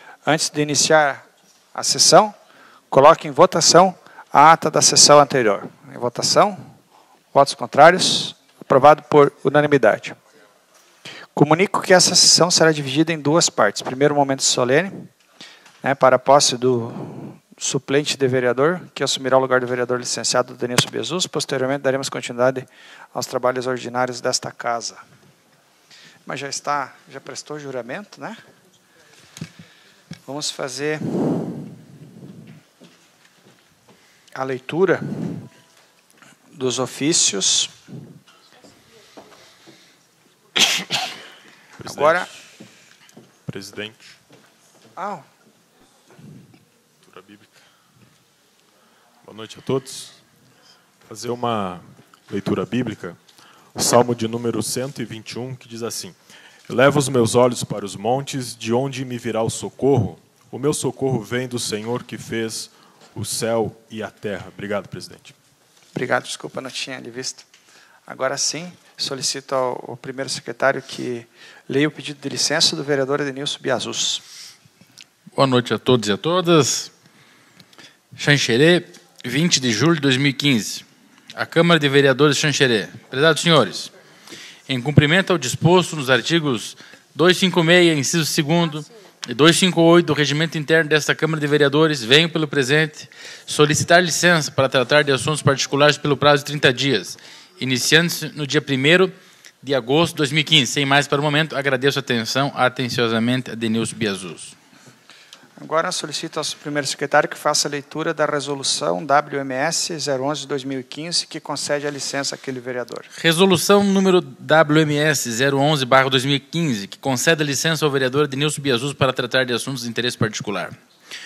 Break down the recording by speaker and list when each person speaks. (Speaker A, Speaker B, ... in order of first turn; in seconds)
Speaker A: 0.2-2.4, 2.9-6.7, 7.3-10.2, 11.3-15.1, 15.8-25.0, 26.2-28.4, 30.2-31.8, 34.3-35.5, 36.5-37.7, 41.8-42.3, 45.0-45.2, 65.9-67.5, 68.1-74.2, 105.6-113.1
Speaker B: 41.8-42.4, 43.5-44.1, 47.0-47.5, 49.2-50.2, 51.1-53.2, 53.8-56.1, 56.7-65.3
Speaker C: 75.3-76.9, 78.2-83.9, 84.7-104.5, 113.2-120.8